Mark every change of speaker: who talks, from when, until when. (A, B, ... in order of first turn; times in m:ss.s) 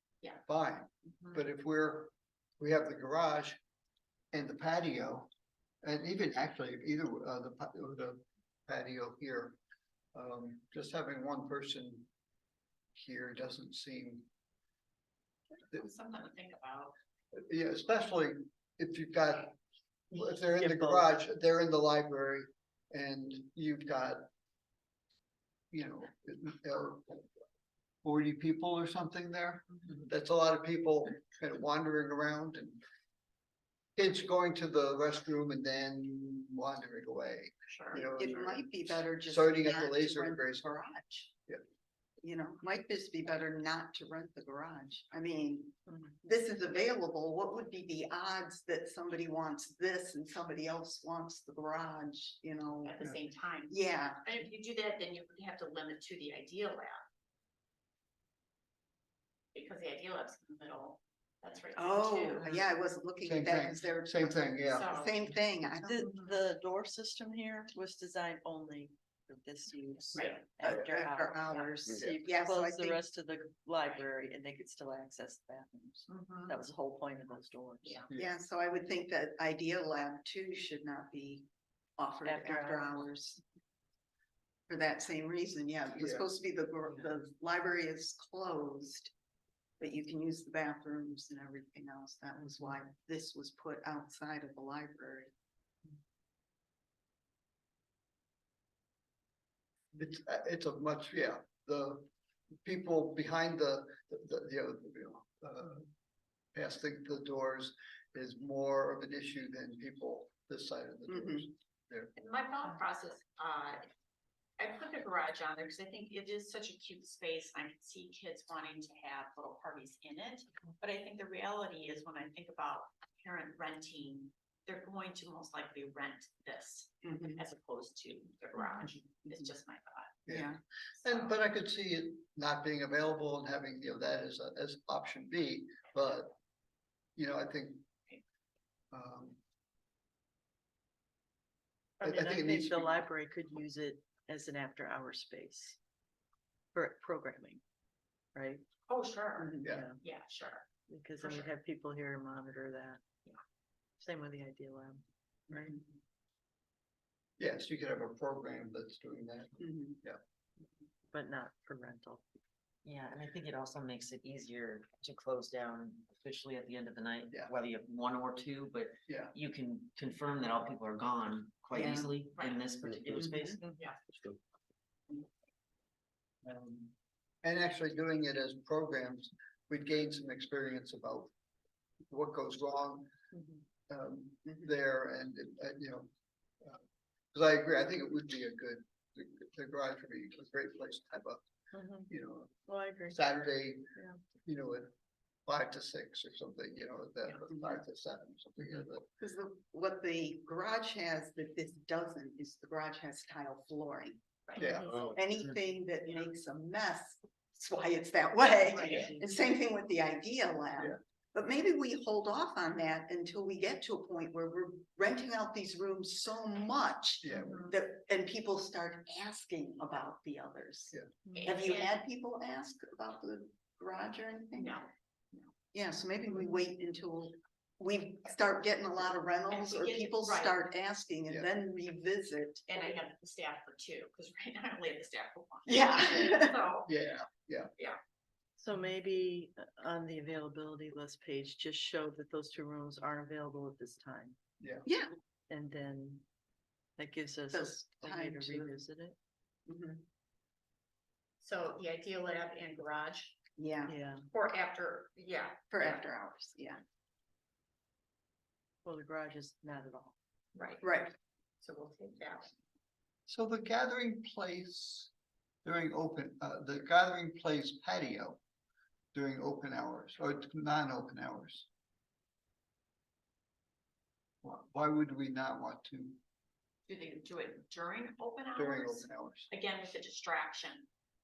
0:00.4-0:03.6 A
0:04.3-0:05.3 A
0:05.8-0:09.6 A
0:10.1-0:12.1 A
0:12.9-0:14.3 A
0:15.7-0:16.9 B
0:17.3-0:19.6 A
0:20.1-0:24.3 A
0:20.6-0:21.2 C
0:25.7-0:27.3 A
0:28.0-0:32.8 A
0:34.0-0:38.6 A
0:37.7-0:38.6 B
0:37.9-0:41.3 D
0:39.3-0:40.7 A
0:42.2-0:53.0 D
0:52.8-0:57.0 B
0:53.7-0:54.2 D
0:59.5-1:02.7 B
1:01.7-1:06.0 D
1:03.2-1:05.0 A
1:04.7-1:05.2 B
1:05.7-1:18.0 C
1:06.0-1:06.3 B
1:10.1-1:10.5 B
1:10.6-1:13.0 D
1:16.1-1:16.6 B
1:18.1-1:21.4 D
1:22.0-1:23.4 D
1:22.2-1:22.9 C
1:24.7-1:29.1 D
1:26.0-1:26.2 A
1:29.8-1:35.3 D
1:39.9-1:42.1 A
1:42.6-1:45.9 A
1:46.5-1:52.1 A
1:51.1-1:51.5 D
1:52.2-1:53.9 B
1:54.6-2:10.2 B
2:07.0-2:07.4 D
2:10.2-2:16.3 A
2:10.3-2:10.6 D
2:10.9-2:11.4 B
2:17.2-2:17.8 A
2:18.9-2:19.4 A
2:22.0-2:22.8 A
2:22.0-2:25.8 C
2:26.7-2:27.6 C
2:28.3-2:28.6 C
2:28.9-2:30.7 B
2:29.4-2:29.6 D
2:29.6-2:30.0 C
2:30.9-2:33.0 C
2:31.2-2:31.5 B
2:34.0-2:35.7 C
2:37.4-2:40.2 A
2:39.6-2:40.0 D
2:41.1-2:42.2 C
2:42.8-2:53.6 E
2:49.1-2:49.3 A
2:51.7-2:52.1 D
2:52.4-2:52.6 B
2:53.2-2:53.6 D
2:53.6-2:54.0 B
2:56.4-3:01.3 A
3:02.1-3:03.1 A
3:03.9-3:06.1 A
3:06.6-3:11.4 A
3:11.7-3:12.1 C
3:12.1-3:12.6 A
3:12.7-3:13.2 C
3:13.1-3:13.9 A
3:14.4-3:14.9 A
3:15.5-3:19.1 A
3:19.2-3:24.2 D
3:24.5-3:24.7 B
3:24.6-3:25.1 A
3:24.9-3:44.8 D
3:28.6-3:29.2 B
3:37.2-3:37.5 A
3:37.3-3:37.7 B
3:41.3-3:42.0 B
3:44.6-3:45.5 B
3:45.7-3:52.8 D
3:49.5-3:50.6 B
3:52.7-3:56.9 B
3:55.7-3:56.6 D
3:56.9-3:57.7 A
3:58.6-4:04.4 C
4:04.6-4:04.9 A
4:04.8-4:05.1 D
4:05.5-4:06.2 C
4:07.0-4:09.2 C
4:07.5-4:08.7 D
4:09.7-4:10.0 D
4:11.4-4:13.4 B
4:13.6-4:14.0 D
4:13.8-4:14.2 C
4:14.3-4:16.0 B
4:15.7-4:16.8 D
4:18.8-4:20.1 C
4:20.5-4:20.9 B
4:20.8-4:21.1 D
4:21.6-4:22.5 B
4:23.3-4:25.1 A
4:25.6-4:28.4 A
4:29.1-4:31.7 A
4:34.4-4:36.2 A
4:36.9-4:40.9 B
4:38.5-4:39.5 A